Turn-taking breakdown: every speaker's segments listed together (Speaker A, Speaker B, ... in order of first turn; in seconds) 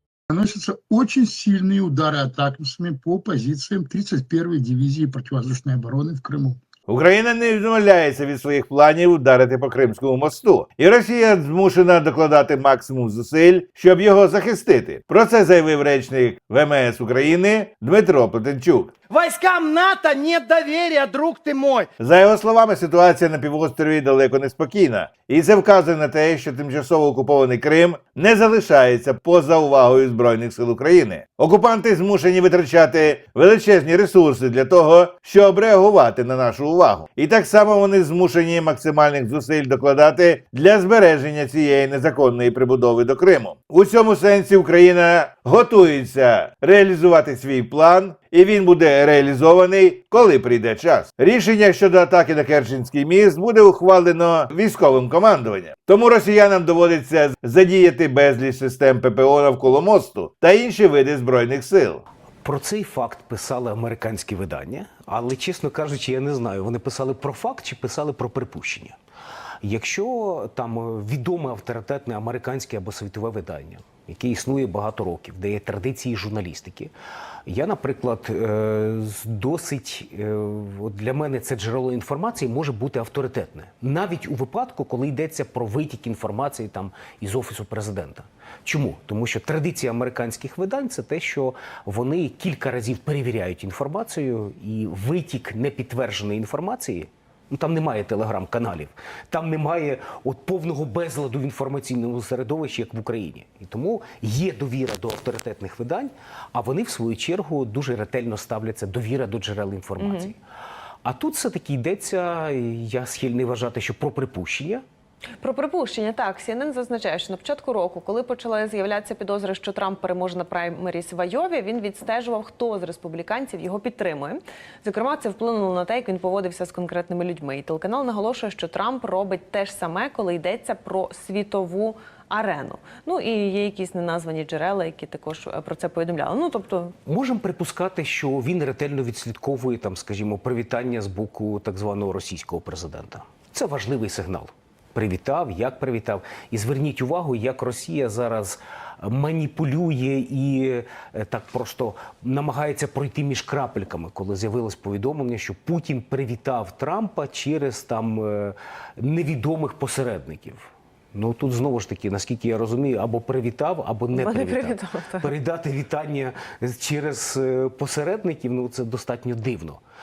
Speaker A: 0.3-6.5
Speaker B: 6.9-18.9, 22.0-62.0
Speaker C: 19.1-21.8
Speaker D: 62.4-69.0, 69.6-76.9, 77.5-110.4, 111.0-114.8, 137.1-169.8
Speaker E: 110.0-110.3, 115.4-136.9, 164.1-165.3